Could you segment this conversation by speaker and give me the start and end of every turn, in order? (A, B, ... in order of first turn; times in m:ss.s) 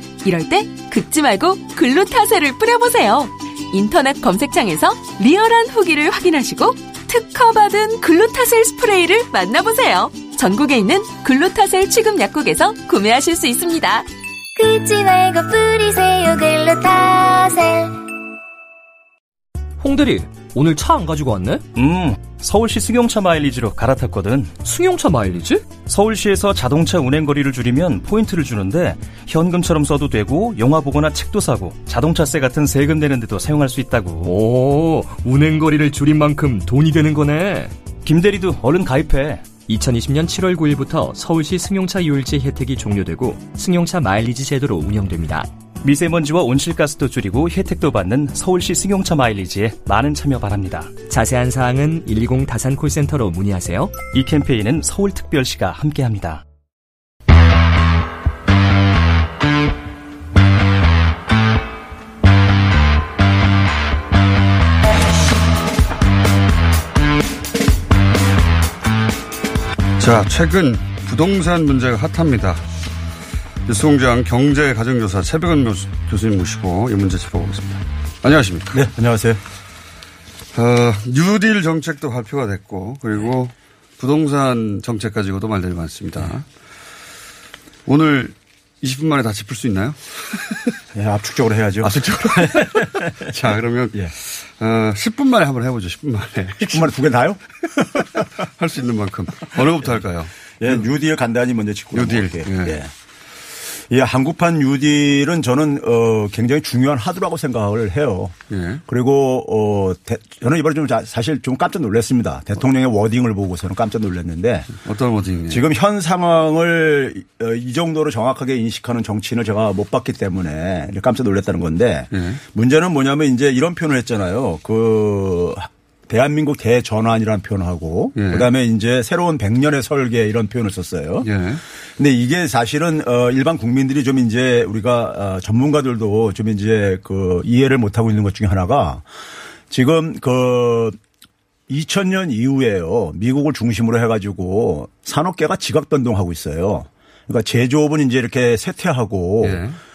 0:00.2-0:14.1 A
0:14.6-0:18.0 B
0:19.8-0:21.6 C
0:21.7-0:24.6 D
0:24.6-0:25.7 C
0:25.7-0:34.4 D
0:34.3-0:37.7 C
0:38.0-0:39.6 D
0:39.5-0:45.5 C
0:45.8-0:51.0 D
0:51.0-0:54.0 C
0:54.0-0:56.4 D
1:10.0-1:12.6 E
1:13.6-1:18.8 E
1:18.7-1:19.4 F
1:20.5-1:26.4 E
1:27.8-1:30.0 E
1:30.9-1:32.9 F
1:31.8-1:36.8 E
1:36.6-1:37.4 F
1:38.6-1:40.3 E
1:40.6-1:42.9 F
1:41.9-1:42.8 E
1:43.9-1:48.3 F
1:48.5-1:48.8 E
1:48.9-1:54.7 F
1:54.8-1:55.6 E
1:55.5-2:11.3 F
2:02.1-2:02.4 E
2:08.2-2:08.5 E
2:11.2-2:11.6 E
2:12.0-2:19.0 F
2:19.7-2:21.0 F
2:21.7-2:29.6 F
2:29.4-2:29.8 E